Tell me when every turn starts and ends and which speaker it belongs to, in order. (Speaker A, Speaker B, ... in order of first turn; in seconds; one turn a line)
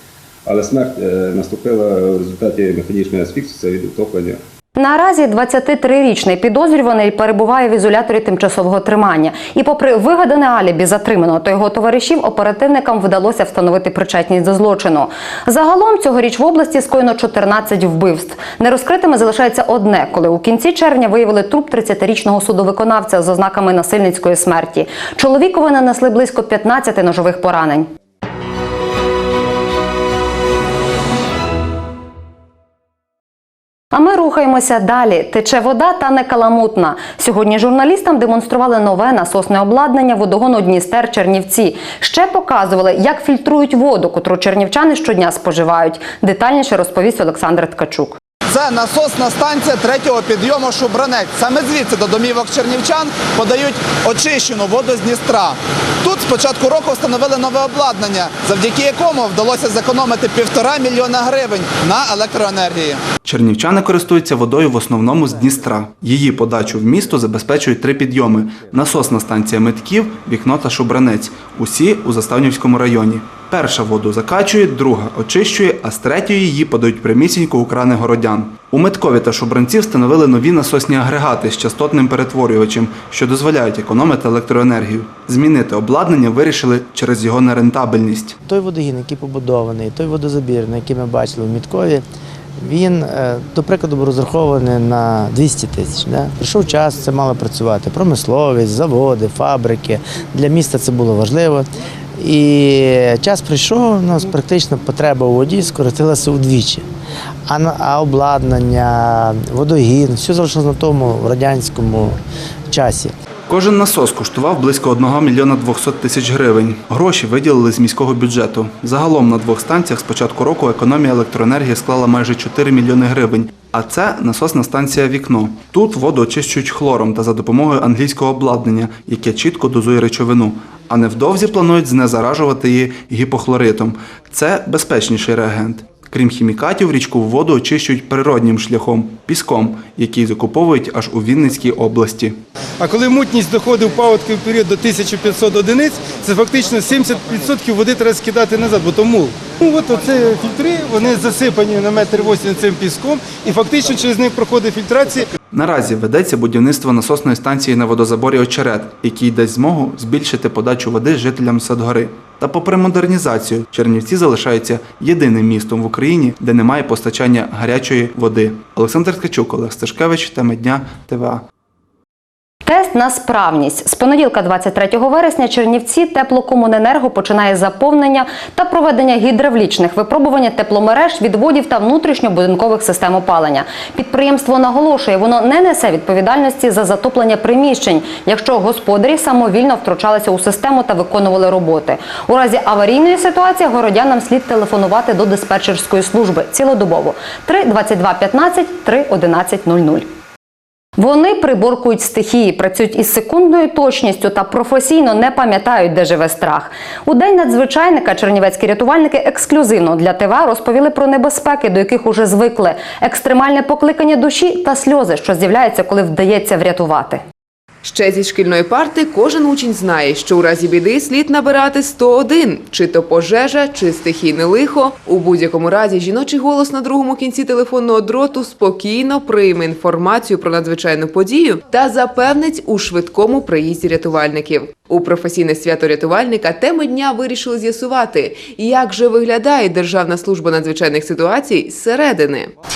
Speaker A: 0.5-4.4
Speaker B: 4.8-27.9
Speaker B: 33.9-48.2
Speaker C: 48.5-63.0
Speaker D: 63.2-88.3
Speaker E: 88.5-92.0
Speaker E: 92.6-106.8
Speaker E: 107.5-112.2
Speaker E: 112.7-113.1
Speaker D: 113.5-142.4
Speaker F: 142.8-155.3
Speaker D: 155.5-171.4
Speaker B: 172.6-200.1
Speaker B: 201.0-217.2
Speaker G: 217.8-242.5